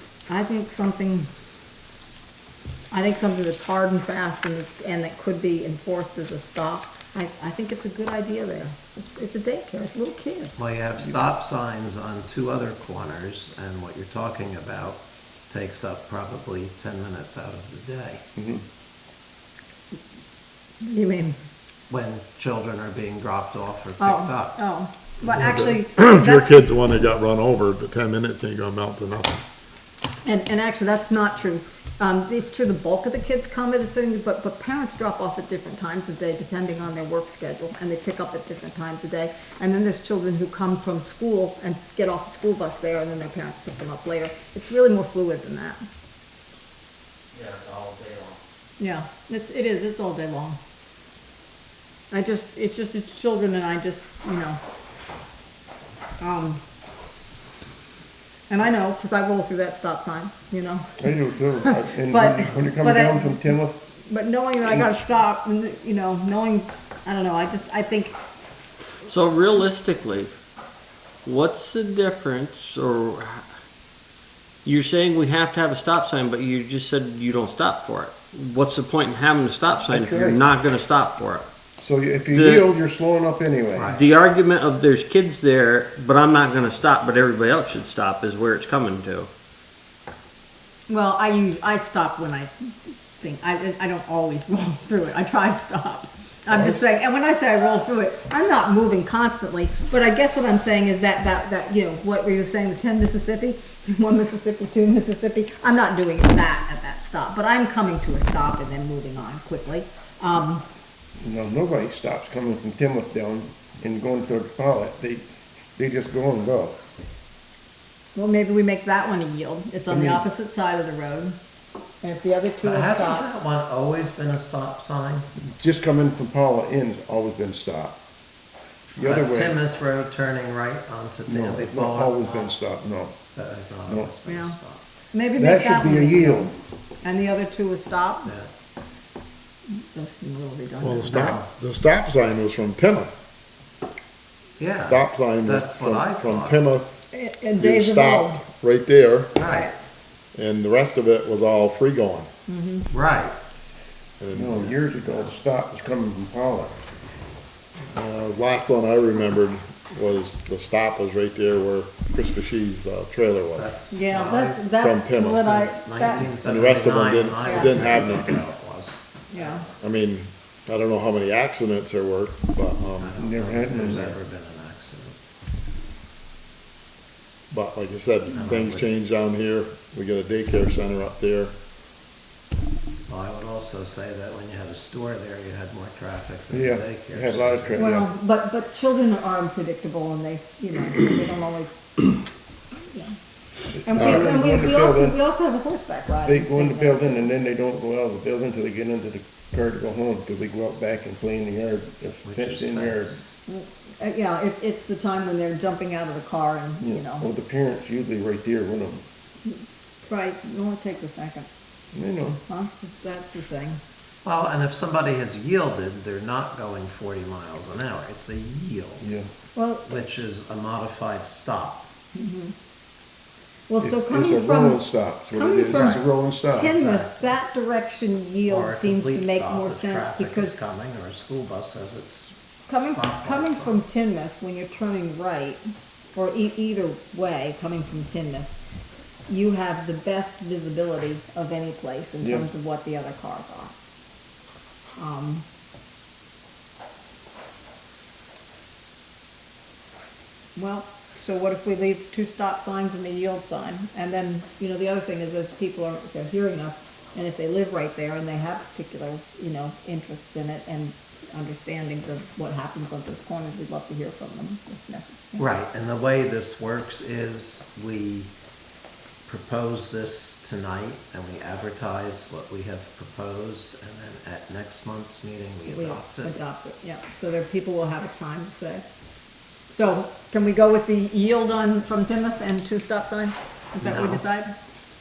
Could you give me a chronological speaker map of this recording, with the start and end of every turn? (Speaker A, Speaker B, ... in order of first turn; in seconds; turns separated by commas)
Speaker A: 0.3-1.3, Speaker A: 2.9-10.6, Speaker B: 10.6-18.2, Speaker C: 18.4-18.6, Speaker A: 20.8-21.4, Speaker B: 21.9-24.6, Speaker A: 24.0-26.6, Speaker D: 25.2-29.4, Speaker A: 30.2-45.8, Speaker B: 47.3-48.4, Speaker A: 48.8-50.6, Speaker A: 52.1-54.6, Speaker A: 56.2-56.6, Speaker A: 58.5-61.0, Speaker C: 61.0-63.8, Speaker A: 61.6-63.5, Speaker A: 64.1-68.2, Speaker E: 69.0-70.4, Speaker E: 71.2-73.5, Speaker E: 74.7-81.5, Speaker C: 79.9-80.4, Speaker C: 81.8-84.0, Speaker E: 82.3-82.7, Speaker B: 83.7-84.0, Speaker E: 83.9-89.3, Speaker A: 90.9-110.6, Speaker C: 96.5-96.8, Speaker C: 111.2-115.2, Speaker C: 115.8-116.8, Speaker A: 118.2-121.4, Speaker C: 119.9-120.2, Speaker A: 122.0-123.4, Speaker B: 122.6-125.3, Speaker C: 125.4-128.0, Speaker C: 129.0-129.6, Speaker B: 129.0-132.6, Speaker C: 131.3-133.2, Speaker B: 133.3-134.8, Speaker C: 133.9-134.1, Speaker A: 134.3-134.6, Speaker A: 135.1-138.3, Speaker C: 135.4-136.5, Speaker B: 138.2-138.5, Speaker A: 139.7-141.4, Speaker D: 140.8-143.1, Speaker B: 141.0-141.5, Speaker B: 144.6-146.6, Speaker D: 144.8-147.0, Speaker A: 147.1-148.4, Speaker D: 147.6-149.3, Speaker B: 149.3-149.7, Speaker A: 149.4-149.7, Speaker D: 150.3-152.3, Speaker A: 152.5-152.9, Speaker B: 152.9-153.4, Speaker D: 154.2-154.8, Speaker C: 154.3-156.8, Speaker D: 157.9-163.7, Speaker B: 163.5-169.7, Speaker A: 163.9-166.3, Speaker D: 164.8-165.6, Speaker D: 166.1-168.4, Speaker A: 167.4-168.0, Speaker A: 169.3-169.7, Speaker D: 169.8-173.2, Speaker B: 173.0-175.2, Speaker C: 173.2-174.2, Speaker D: 177.5-181.6, Speaker B: 178.3-178.9, Speaker B: 183.1-187.9, Speaker C: 186.5-188.1, Speaker A: 187.8-191.8, Speaker A: 192.7-193.2, Speaker C: 193.7-195.2, Speaker A: 193.8-197.3, Speaker D: 194.0-194.3, Speaker C: 196.2-203.2, Speaker B: 202.2-203.3, Speaker A: 203.5-207.3, Speaker C: 206.8-209.1, Speaker A: 209.5-211.5, Speaker C: 211.9-212.4, Speaker A: 212.5-213.8, Speaker B: 214.2-219.1, Speaker C: 219.0-219.3, Speaker A: 219.6-219.9, Speaker B: 219.8-221.9, Speaker A: 222.1-222.5, Speaker A: 223.7-230.6, Speaker C: 223.8-226.8, Speaker B: 225.7-226.1, Speaker B: 226.6-227.4, Speaker B: 228.4-233.8, Speaker A: 232.7-235.6, Speaker A: 236.2-238.5, Speaker A: 239.3-243.7, Speaker C: 242.2-242.5, Speaker A: 245.0-245.4, Speaker A: 250.6-265.5, Speaker B: 265.4-268.3, Speaker B: 269.3-276.4, Speaker A: 275.7-278.9, Speaker A: 279.7-284.5, Speaker B: 279.7-280.1, Speaker B: 283.8-284.2